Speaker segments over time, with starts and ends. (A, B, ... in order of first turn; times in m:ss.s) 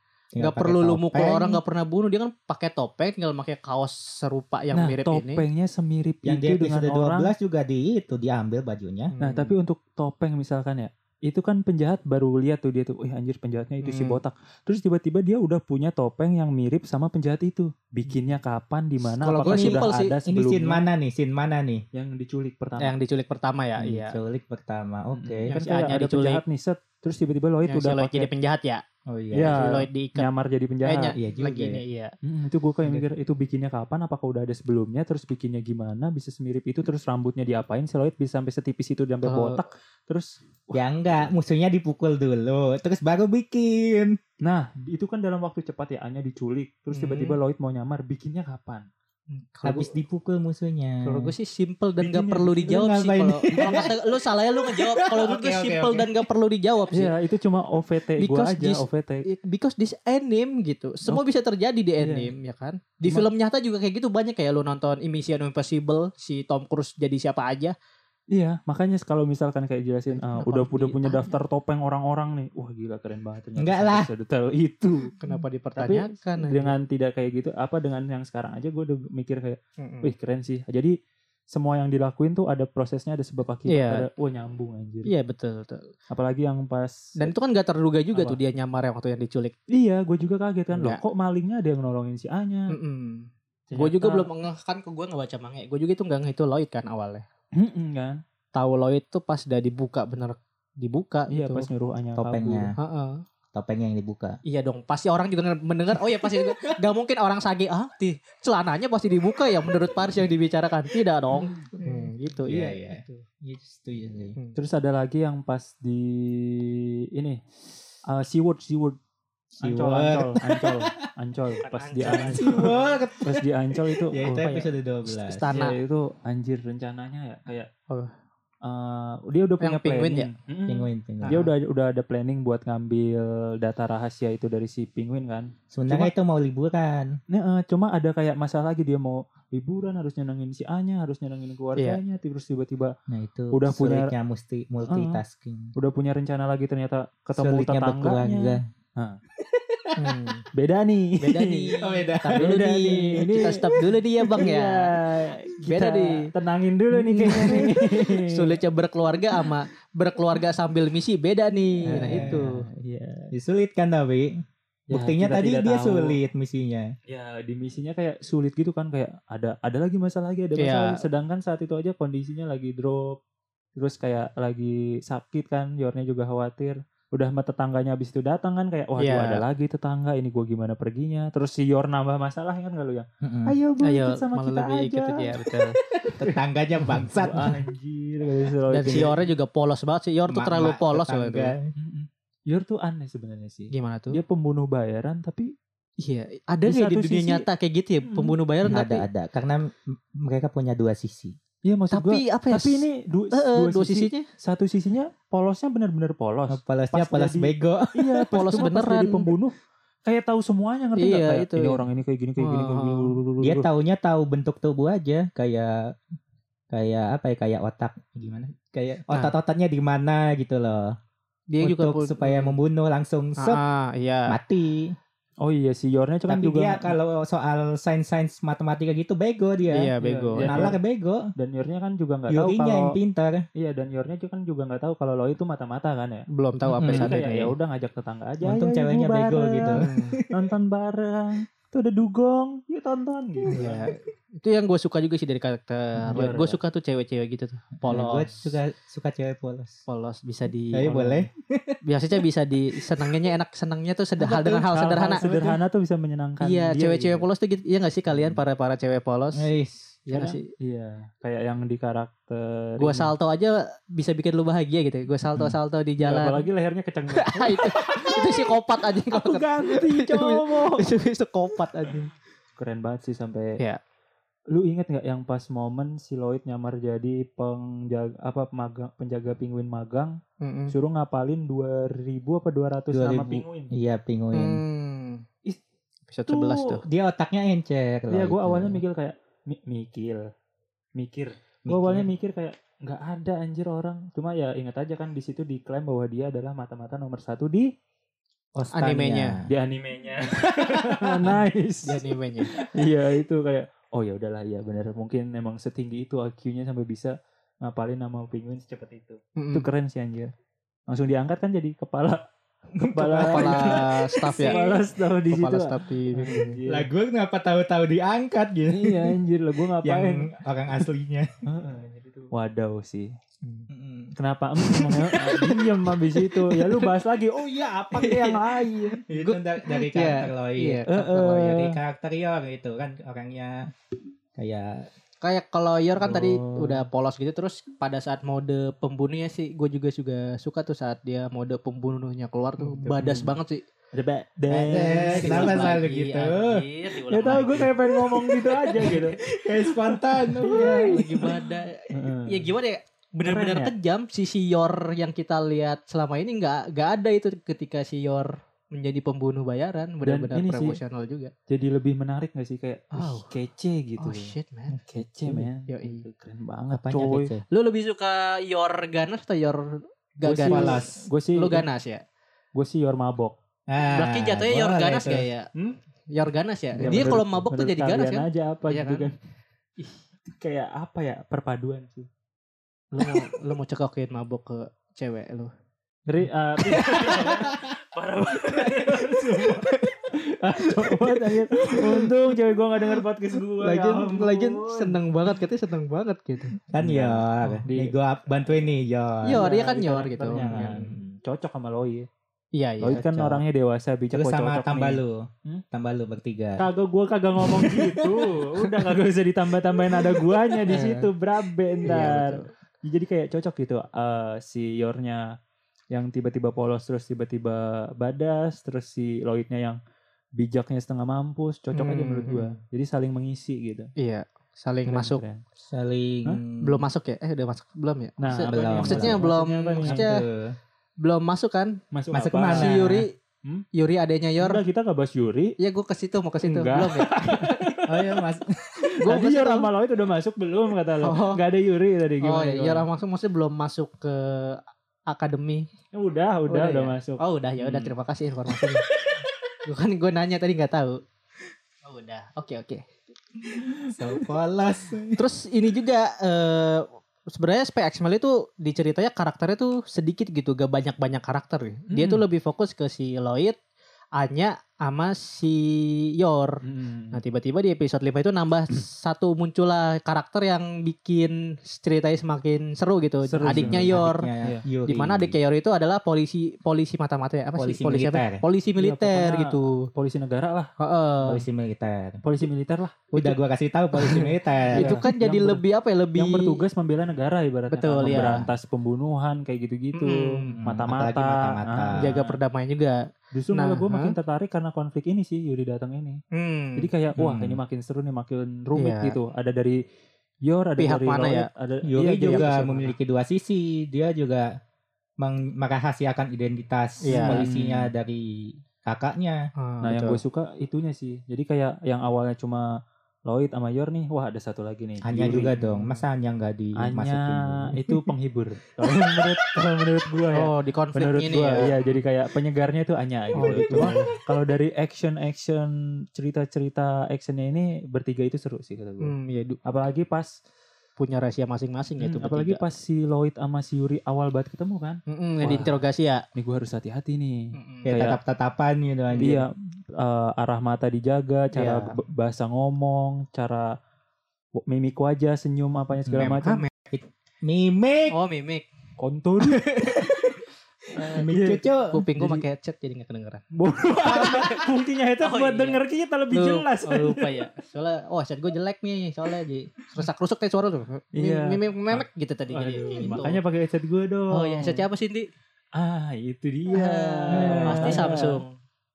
0:00.3-0:01.6 A
0:00.4-0:05.4 B
0:04.7-0:07.3 C
0:06.2-0:09.1 A
0:09.1-0:09.5 B
0:09.2-0:20.8 C
0:13.8-0:14.2 B
0:19.2-0:20.1 B
0:19.4-0:21.8 A
0:21.9-0:23.0 C
0:22.8-0:24.2 B
0:23.8-0:25.5 A
0:25.1-0:28.3 C
0:25.5-0:26.4 B
0:27.7-0:28.8 B
0:29.1-0:29.6 A
0:29.3-0:31.2 C
0:29.3-0:30.3 B
0:30.8-0:32.1 B
0:31.2-0:31.8 A
0:32.2-0:41.3 C
0:39.2-0:39.6 B
0:40.7-0:44.2 A
0:44.4-0:48.9 C
0:46.9-0:47.4 B
0:49.3-0:49.9 B
0:49.6-0:51.3 A
0:51.0-0:57.1 B
0:52.0-0:52.7 C
0:52.6-0:56.1 A
0:53.6-0:53.8 C
0:56.9-0:59.2 C
0:58.2-1:07.7 B
1:02.0-1:02.3 C
1:08.3-1:15.1 C
1:10.1-1:11.4 B
1:13.6-1:14.1 A
1:15.2-1:16.7 B
1:15.8-1:20.9 C
1:19.8-1:20.1 B
1:21.5-1:25.1 C
1:23.7-1:24.0 B
1:25.0-1:25.8 B
1:26.1-1:27.3 C
1:27.2-1:29.5 B
1:29.7-1:32.7 C
1:30.7-1:31.0 B
1:32.7-1:37.2 B
1:33.7-1:34.3 C
1:37.6-1:38.2 C
1:38.5-1:41.7 B
1:41.3-1:42.7 C
1:42.2-1:42.7 A
1:42.8-1:43.2 B
1:43.5-1:44.4 A
1:44.4-1:53.2 B
1:46.3-1:46.7 A
1:51.5-1:54.4 A
1:54.6-1:57.4 C
1:58.0-1:59.0 C
1:59.6-2:01.0 A
1:59.6-2:04.6 C
2:01.6-2:02.9 B
2:02.4-2:05.4 A
2:05.1-2:05.8 B
2:05.5-2:07.7 C
2:08.6-2:16.1 C
2:09.6-2:10.3 B
2:10.7-2:11.4 A
2:11.2-2:11.5 B
2:15.7-2:17.2 A
2:17.3-2:22.9 C
2:23.1-2:25.7 A
2:23.5-2:24.1 C
2:24.9-2:25.2 C
2:25.8-2:29.2 C
2:27.4-2:28.6 A
2:29.4-2:30.2 A
2:30.0-2:30.4 B
2:30.5-2:31.7 C
2:31.2-2:34.9 B
2:31.8-2:33.6 A
2:32.4-2:33.8 C
2:34.3-2:38.6 C
2:35.6-2:36.3 B
2:36.9-2:42.5 B
2:41.9-2:42.4 A
2:41.9-2:43.3 C
2:43.3-2:44.3 A
2:44.9-2:46.2 C
2:44.9-2:46.9 A
2:47.1-2:53.2 C
2:50.6-2:51.0 B
2:53.8-3:05.1 C
2:59.0-2:59.4 B
3:03.2-3:03.5 A
3:03.8-3:05.8 B
3:06.0-3:07.6 A
3:07.0-3:09.2 C
3:08.7-3:11.5 B
3:10.3-3:11.7 A
3:11.8-3:15.5 C
3:13.7-3:14.2 B
3:16.0-3:19.0 B
3:16.6-3:17.4 C
3:18.0-3:18.3 C
3:18.7-3:21.4 A
3:21.6-3:29.5 C
3:21.9-3:24.3 B
3:26.5-3:28.2 A
3:28.3-3:29.3 B
3:30.0-3:33.7 C
3:31.0-3:31.8 B
3:32.4-3:33.1 B
3:33.4-3:35.8 A
3:36.7-3:40.9 A
3:41.5-3:42.5 B
3:41.6-3:43.6 A
3:43.4-3:44.4 B
3:44.3-3:44.9 A
3:45.4-3:46.9 C
3:46.3-3:51.3 A
3:49.7-3:50.7 B
3:50.0-3:50.8 C
3:51.4-3:52.9 C
3:52.3-3:53.4 A
3:53.6-3:56.3 C
3:56.3-3:57.5 B
3:56.8-3:57.2 A
3:56.8-4:03.6 C
3:58.4-4:00.5 A
3:59.7-4:00.2 B
4:03.5-4:03.9 A
4:03.5-4:08.4 B
4:06.1-4:06.6 C
4:07.8-4:09.8 A
4:09.9-4:11.2 B
4:10.7-4:11.8 A
4:11.8-4:15.2 B
4:14.2-4:15.6 A
4:14.7-4:17.2 C
4:16.4-4:19.5 B
4:19.4-4:20.0 A
4:20.1-4:20.5 B
4:20.1-4:23.1 C
4:22.8-4:26.4 B
4:26.0-4:28.5 C
4:27.1-4:32.1 B
4:29.1-4:30.9 C
4:32.6-4:33.6 C
4:34.5-4:40.2 C
4:40.4-4:40.7 B
4:40.7-4:43.7 C
4:42.9-4:44.6 A
4:44.3-4:45.2 B
4:46.1-4:46.8 B
4:46.3-4:46.7 C
4:46.9-4:48.8 A
4:48.1-4:50.2 C
4:51.0-4:57.7 C
4:51.6-4:52.1 A
4:58.5-4:59.5 A
4:58.7-4:59.4 B
4:59.5-5:10.3 C
5:00.4-5:01.4 A
5:01.8-5:02.5 B
5:09.4-5:09.6 B
5:10.9-5:12.2 C
5:12.8-5:14.8 A
5:12.9-5:16.9 C
5:13.2-5:14.6 B
5:15.3-5:16.6 B
5:16.7-5:19.2 A
5:18.7-5:20.3 C
5:19.8-5:21.3 A
5:21.4-5:23.1 C
5:23.7-5:24.1 A
5:24.2-5:29.0 C
5:24.7-5:26.9 B
5:27.9-5:28.4 B
5:29.1-5:33.7 A
5:29.1-5:31.5 B
5:30.9-5:31.8 C
5:34.4-5:34.9 A
5:35.2-5:43.6 B
5:36.0-5:36.8 C
5:42.6-5:43.3 C
5:43.9-5:45.8 C
5:44.5-5:46.6 A
5:44.7-5:49.4 B
5:47.1-5:49.2 C
5:49.2-5:51.3 A
5:50.4-5:51.4 C
5:50.4-6:01.3 B
5:51.9-5:52.5 C
5:53.2-5:53.7 C
6:00.0-6:00.8 C
6:01.5-6:07.3 C
6:02.9-6:03.3 B
6:04.0-6:04.8 B
6:05.7-6:06.0 B
6:06.7-6:07.4 A
6:07.5-6:10.8 B
6:10.2-6:11.6 C
6:10.4-6:11.0 A
6:11.3-6:12.0 B
6:12.5-6:13.3 C
6:13.7-6:15.3 A
6:13.9-6:15.5 B
6:16.1-6:19.1 B
6:16.8-6:19.1 C
6:16.8-6:17.1 A
6:20.2-6:22.1 C
6:23.0-6:25.5 B
6:23.0-6:23.3 C
6:26.1-6:35.0 C
6:26.6-6:27.6 B
6:28.9-6:30.0 B
6:30.6-6:32.1 B
6:33.6-6:36.6 B
6:36.7-6:39.6 A
6:36.7-6:38.7 C
6:39.2-6:40.9 B
6:39.3-6:42.1 C
6:40.3-6:41.0 A
6:42.5-6:43.4 B
6:42.8-6:45.6 C
6:44.1-6:46.6 A
6:46.6-6:55.2 C
6:47.6-6:48.0 B
6:50.0-6:51.1 B
6:51.8-6:52.5 B
6:55.9-6:59.8 C
7:00.4-7:03.9 C
7:01.7-7:02.6 B
7:04.0-7:05.2 B
7:04.9-7:05.4 C
7:05.6-7:06.8 A
7:06.6-7:10.2 B
7:08.2-7:10.1 C
7:08.5-7:10.5 A
7:11.0-7:11.8 B
7:11.9-7:13.6 C
7:12.1-7:13.0 A
7:12.5-7:13.1 B
7:13.7-7:14.6 B
7:14.4-7:15.5 C
7:15.6-7:17.7 B
7:16.4-7:18.2 C
7:17.8-7:18.8 A
7:19.0-7:19.7 B
7:19.0-7:22.8 C
7:21.0-7:21.4 B
7:22.2-7:25.7 B
7:25.9-7:27.9 C
7:26.5-7:28.8 B
7:29.6-7:31.0 B
7:31.8-7:32.9 B
7:33.8-7:35.2 A
7:35.2-7:43.6 B
7:41.9-7:42.2 C
7:44.2-7:46.6 B
7:46.6-7:47.2 C
7:47.1-7:54.3 B
7:53.3-7:54.6 C
7:53.4-7:55.3 A
7:54.8-7:59.9 B
7:57.6-7:58.4 A
7:58.8-8:00.7 C
8:00.8-8:01.4 B
8:01.2-8:02.2 A
8:02.2-8:03.4 C
8:03.1-8:05.0 A
8:04.7-8:05.6 C
8:04.7-8:06.6 B
8:06.2-8:12.4 C
8:07.7-8:08.4 B
8:08.0-8:08.5 A
8:10.0-8:10.5 B
8:10.5-8:12.1 A
8:12.0-8:13.0 B
8:13.3-8:16.2 C
8:13.5-8:14.1 B
8:16.3-8:16.9 B
8:16.8-8:19.8 C
8:17.2-8:17.6 A
8:18.8-8:19.2 B
8:20.4-8:22.6 C
8:20.8-8:21.5 B
8:21.9-8:24.5 A
8:22.2-8:22.9 B
8:25.2-8:29.4 A
8:27.0-8:27.4 B
8:27.1-8:27.9 C
8:29.6-8:30.2 B
8:29.8-8:32.7 C
8:33.3-8:35.5 C
8:35.0-8:38.0 A
8:35.6-8:35.9 B
8:36.8-8:49.1 C
8:40.3-8:41.8 B
8:43.4-8:44.1 B
8:43.5-8:44.0 A
8:49.0-8:49.6 B
8:49.6-8:50.3 C
8:51.0-8:52.6 B
8:52.0-8:55.8 C
8:55.1-8:56.2 B
8:56.4-8:58.2 C
8:57.5-8:58.0 B
8:57.8-8:59.4 A
8:59.1-8:59.4 B
8:59.2-9:03.7 C
9:01.5-9:01.9 B
9:04.6-9:06.6 C
9:06.1-9:08.1 A
9:06.3-9:06.7 B
9:08.1-9:08.7 B
9:09.0-9:09.6 C
9:09.5-9:10.1 B
9:10.0-9:10.3 A
9:11.0-9:12.4 C
9:11.1-9:12.0 A
9:11.9-9:13.4 B
9:13.5-9:17.4 C
9:14.0-9:14.7 B
9:15.2-9:15.8 B
9:16.3-9:23.4 B
9:21.2-9:24.8 C
9:24.3-9:25.3 B
9:25.7-9:28.4 C
9:26.7-9:28.5 B
9:27.3-9:28.1 A